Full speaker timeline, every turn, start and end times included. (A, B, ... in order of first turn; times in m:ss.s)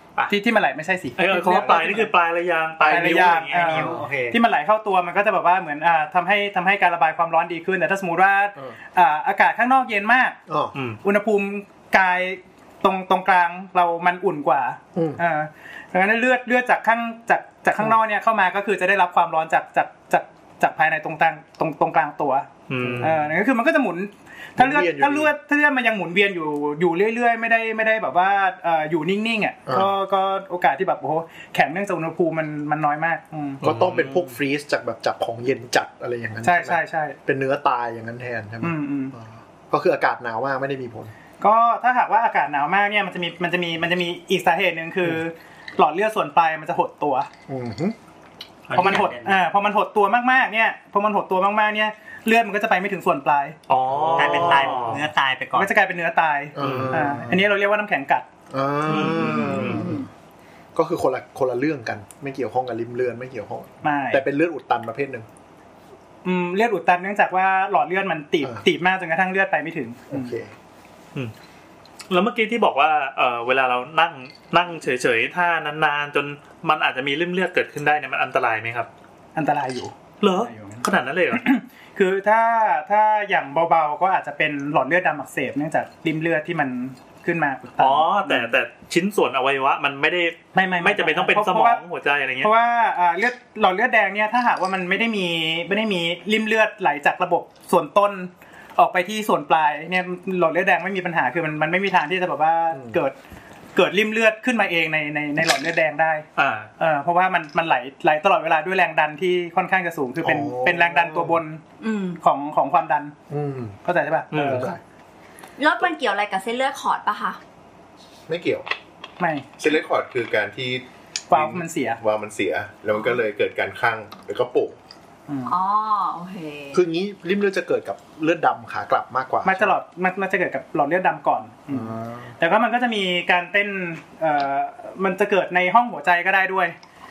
0:00.2-0:02.1 A
0:01.2-0:04.0 B
0:02.8-0:04.4 C
0:02.8-0:10.4 A
0:10.5-0:10.8 D
0:11.0-0:33.6 A
0:14.9-0:15.2 D
0:22.7-0:23.2 B
0:22.8-0:23.2 D
0:24.6-0:25.3 D
0:29.7-0:29.9 D
0:33.6-0:41.1 D
0:33.6-0:34.4 B
0:36.4-0:37.2 A
0:38.6-0:39.1 A
0:41.4-0:47.3 A
0:47.5-0:48.0 D
0:48.7-0:49.4 C
0:48.7-0:53.6 A
0:53.7-0:55.1 B
0:53.9-0:55.0 D
0:54.1-0:55.7 C
0:55.5-0:58.2 A
0:56.5-0:57.4 D
0:56.6-0:57.0 B
0:58.5-1:00.0 D
0:58.8-0:59.9 B
0:59.7-1:00.0 E
1:00.7-1:05.2 D
1:03.8-1:04.2 A
1:06.2-1:10.4 A
1:10.1-1:10.5 D
1:12.1-1:18.9 B
1:19.3-1:28.5 A
1:20.2-1:21.4 B
1:27.8-1:32.5 B
1:30.5-1:31.8 A
1:32.4-1:43.1 A
1:42.7-1:43.0 D
1:43.7-1:46.2 A
1:46.4-1:46.7 B
1:46.8-1:51.6 A
1:50.2-1:51.4 D
1:51.8-1:52.2 E
1:52.2-1:53.1 A
1:53.3-1:53.8 D
1:53.8-1:54.8 A
1:54.3-1:54.7 B
1:54.4-1:54.8 D
1:55.6-1:57.4 E
1:58.3-1:58.7 F
1:59.2-1:59.5 A
1:59.6-2:04.8 F
2:01.3-2:02.0 A
2:05.3-2:05.6 A
2:05.5-2:06.8 E
2:06.7-2:09.8 D
2:09.4-2:16.7 A
2:11.7-2:12.3 D